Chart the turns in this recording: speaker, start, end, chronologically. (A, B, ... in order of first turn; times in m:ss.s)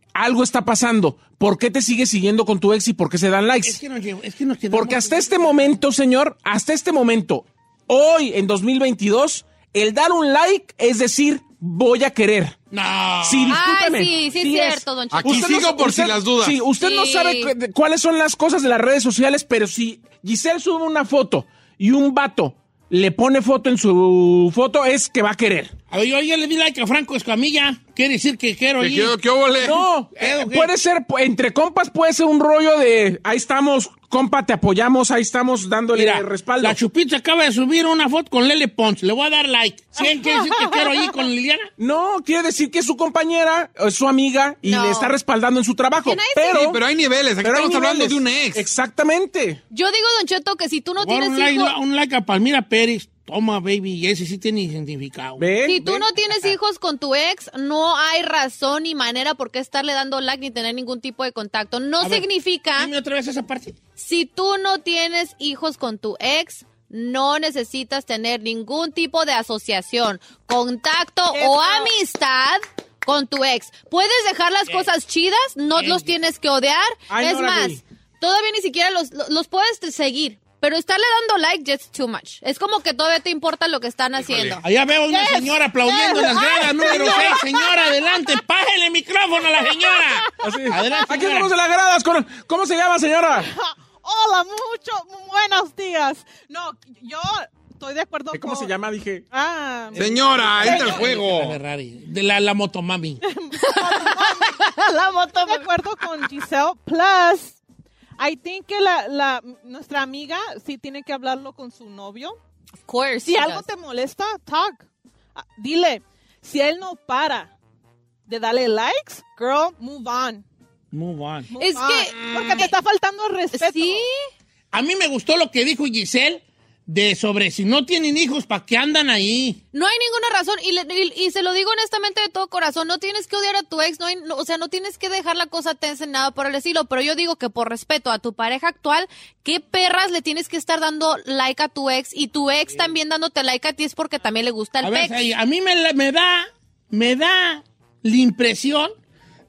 0:00.1-0:03.8 A
0:03.6-0:05.7 B
0:04.7-0:12.6 A
0:12.7-0:13.6 B
0:13.2-0:25.7 A
0:13.5-0:15.8 C
0:15.1-0:16.6 D
0:16.8-0:17.5 C
0:25.9-0:29.1 B
0:28.8-0:29.8 D
0:29.6-0:36.8 A
0:30.2-0:30.7 B
0:35.9-0:41.7 B
0:40.0-0:41.1 E
0:41.8-0:46.8 A
0:44.6-0:45.1 C
0:46.0-0:46.7 C
0:46.5-0:48.7 D
0:47.4-0:49.6 A
0:49.7-0:51.7 C
0:51.0-0:55.4 B
0:55.4-0:56.1 A
0:55.6-1:02.9 C
1:02.0-1:03.8 B
1:04.0-1:24.6 C
1:11.3-1:11.9 E
1:15.7-1:16.2 B
1:17.1-1:17.8 A
1:24.2-1:24.6 D
1:24.6-1:31.5 B
1:25.1-1:27.8 E
1:26.1-1:27.4 C
1:30.4-1:33.5 A
1:33.4-1:38.7 E
1:38.3-1:39.2 A
1:39.3-1:41.1 E
1:39.9-1:43.2 B
1:40.0-1:41.6 D
1:43.2-1:47.6 E
1:43.6-1:45.7 C
1:48.2-1:52.4 E
1:52.9-1:53.7 C
1:53.2-1:57.5 E
1:58.3-2:00.4 E
2:00.9-2:01.5 B
2:01.5-2:04.0 E
2:01.6-2:02.7 C
2:02.2-2:02.6 D
2:03.5-2:04.3 C
2:04.7-2:09.6 B
2:09.7-2:25.2 C
2:24.8-2:28.9 B